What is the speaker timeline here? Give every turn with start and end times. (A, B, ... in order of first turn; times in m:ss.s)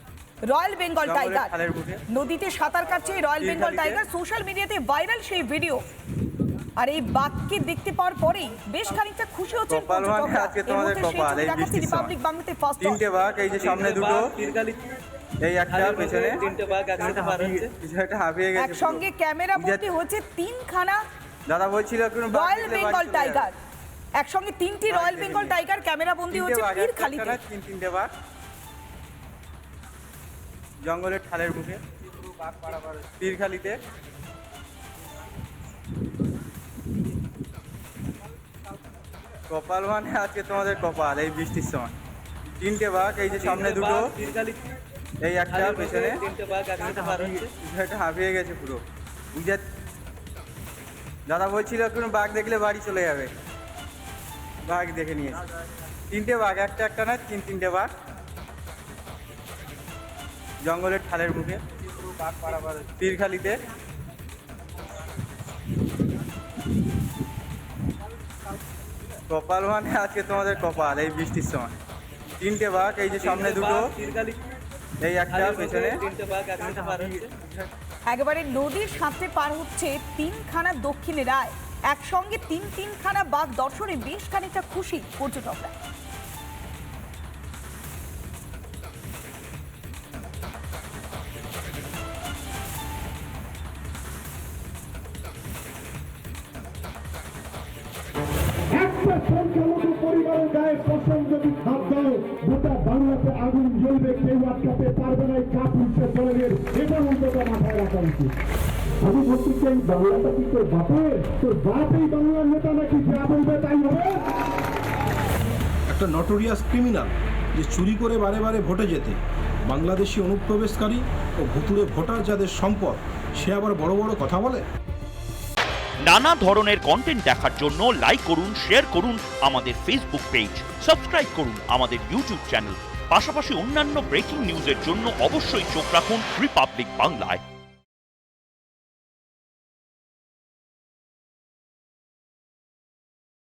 0:00.5-0:01.5 A
0:01.0-0:02.0 B
0:02.1-0:05.8 A
0:03.4-0:04.0 B
0:06.8-0:13.0 A
0:09.7-0:12.1 B
0:12.8-0:14.3 B
0:13.5-0:15.0 C
0:15.4-0:16.4 B
0:15.7-0:17.7 C
0:17.2-0:19.0 B
0:18.5-0:21.0 A
0:19.6-0:19.8 B
0:21.5-0:23.5 B
0:22.3-0:23.5 A
0:24.2-0:27.4 A
0:24.9-0:25.6 B
0:26.3-0:28.1 B
0:30.8-0:33.8 B
0:39.5-0:41.9 B
0:42.6-0:44.1 B
0:43.4-0:44.7 C
0:45.2-0:46.2 B
0:45.5-0:47.5 C
0:47.4-0:48.8 B
0:49.3-0:49.6 B
0:51.3-0:53.3 B
0:54.6-0:55.4 B
0:56.1-0:57.9 B
1:00.6-1:03.6 B
1:09.3-1:11.7 B
1:12.4-1:13.9 B
1:13.1-1:14.5 C
1:15.0-1:16.0 B
1:15.3-1:17.3 C
1:18.1-1:25.7 A
1:38.7-1:48.3 D
1:49.0-1:54.2 D
1:55.9-2:04.6 E
2:06.0-2:17.4 F